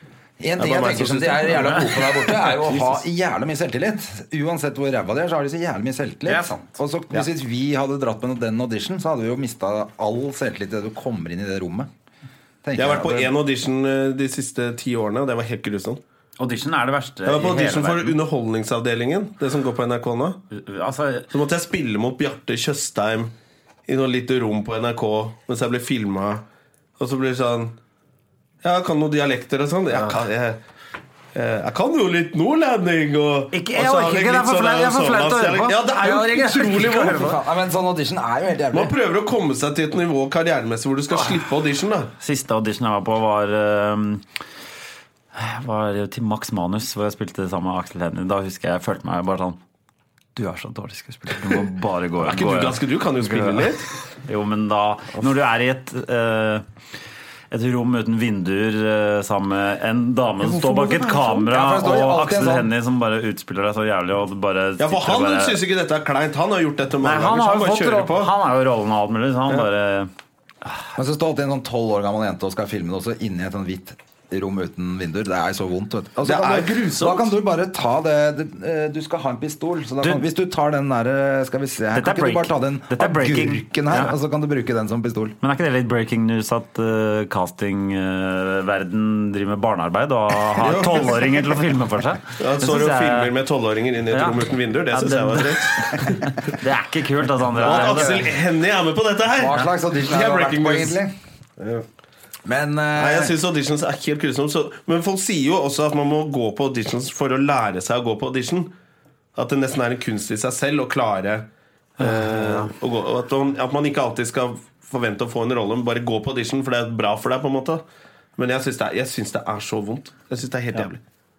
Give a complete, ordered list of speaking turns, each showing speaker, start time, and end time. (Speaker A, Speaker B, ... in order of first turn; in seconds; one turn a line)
Speaker A: 0.4-11.9
Speaker B: 0.6-1.9
Speaker B: 2.7-3.0
Speaker C: 6.3-6.5
Speaker A: 12.6-13.3
Speaker B: 12.8-16.0
Speaker C: 16.4-18.2
Speaker B: 17.3-20.4
Speaker C: 20.5-21.3
Speaker B: 21.3-23.3
Speaker B: 23.9-26.4
Speaker B: 27.0-27.7
Speaker B: 28.6-30.6
Speaker B: 31.3-37.3
Speaker C: 33.5-37.4
Speaker A: 36.9-38.9
Speaker B: 38.7-42.1
Speaker C: 42.2-44.2
Speaker C: 45.3-49.6
Speaker C: 50.4-53.7
Speaker B: 52.2-53.9
Speaker C: 54.3-56.7
Speaker C: 57.5-65.6
Speaker B: 60.4-61.5
Speaker A: 61.5-62.7
Speaker B: 64.8-68.3
Speaker C: 67.0-70.1
Speaker A: 71.0-85.4
Speaker B: 76.2-77.3
Speaker C: 82.0-84.1
Speaker C: 85.4-93.3
Speaker B: 90.6-91.2
Speaker B: 92.4-96.4
Speaker C: 94.1-98.2
Speaker B: 97.6-101.0
Speaker A: 97.7-98.2
Speaker A: 99.4-101.1
Speaker B: 101.6-101.8
Speaker A: 102.5-103.4
Speaker B: 103.0-108.7
Speaker B: 109.4-111.5
Speaker B: 112.0-117.8
Speaker C: 112.0-112.7
Speaker B: 118.4-121.0